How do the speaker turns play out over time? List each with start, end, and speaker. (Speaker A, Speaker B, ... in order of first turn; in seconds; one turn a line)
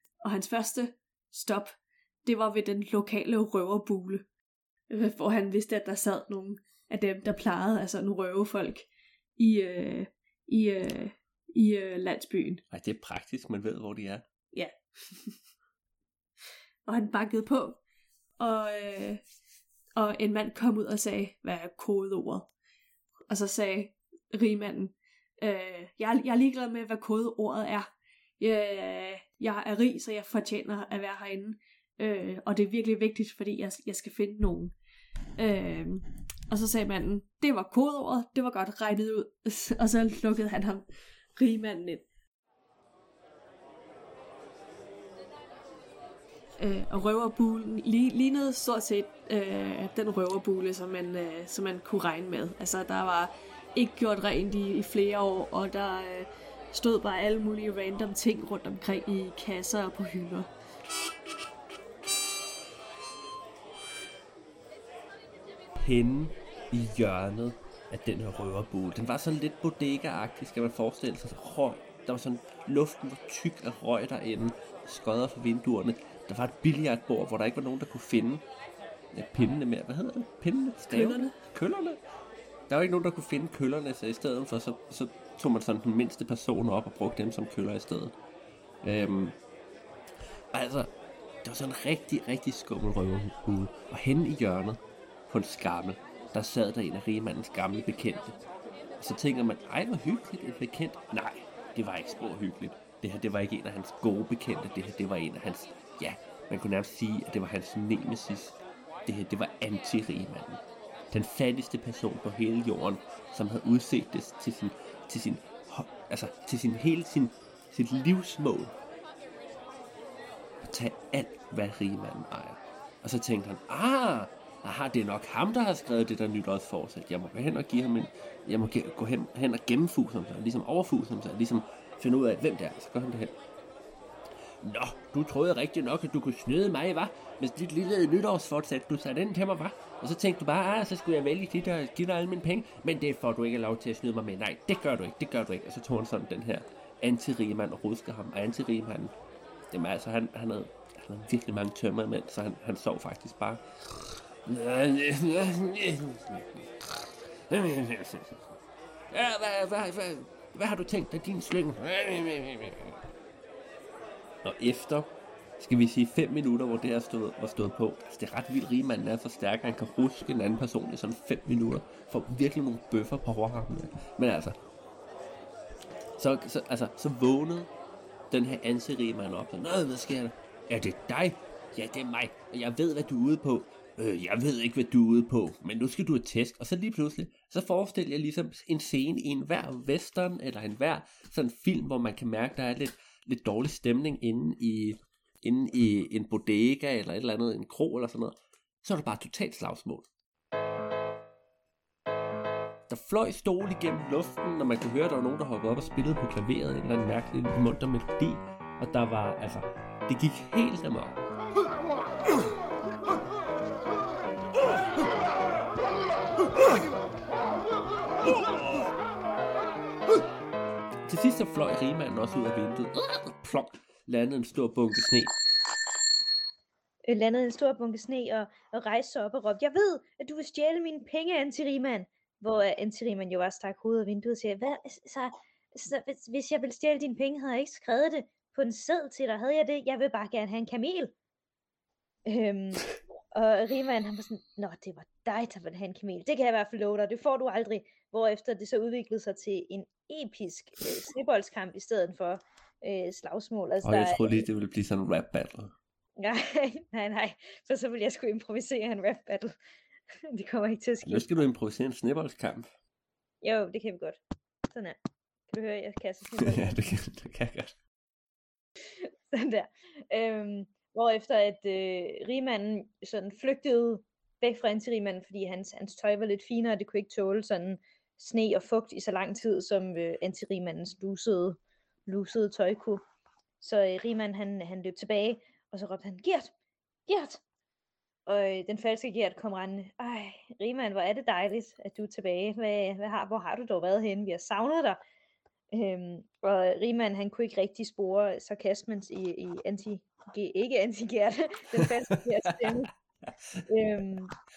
Speaker A: 0.2-4.3
Speaker A: 4.9-12.6
Speaker B: 12.7-14.2
Speaker A: 14.5-15.4
Speaker A: 16.9-17.8
Speaker A: 18.4-19.2
Speaker A: 20.0-22.5
Speaker A: 23.3-34.8
Speaker A: 35.4-42.1
Speaker A: 46.6-60.5
Speaker B: 65.8-78.5
Speaker B: 79.1-82.0
Speaker A: 80.9-81.3
Speaker B: 82.7-88.2
Speaker B: 88.8-89.4
Speaker B: 90.5-90.9
Speaker B: 91.4-98.4
Speaker B: 99.0-118.8
Speaker B: 120.6-133.4
Speaker B: 134.6-149.2
Speaker B: 149.7-158.6
Speaker B: 159.1-163.0
Speaker B: 164.4-174.6
Speaker B: 176.2-177.7
Speaker B: 178.3-200.1
Speaker B: 202.9-211.2
Speaker B: 218.2-218.9
Speaker B: 221.1-225.3
Speaker C: 227.1-241.1
Speaker C: 242.3-254.5
Speaker B: 253.8-255.7
Speaker C: 256.2-259.5
Speaker C: 260.3-261.3
Speaker B: 261.0-262.7
Speaker C: 263.4-266.8
Speaker B: 266.4-267.8
Speaker C: 269.0-283.0
Speaker C: 283.6-286.5
Speaker C: 287.1-287.4
Speaker C: 288.3-295.0
Speaker C: 295.7-302.9
Speaker B: 302.5-302.9
Speaker C: 303.7-304.3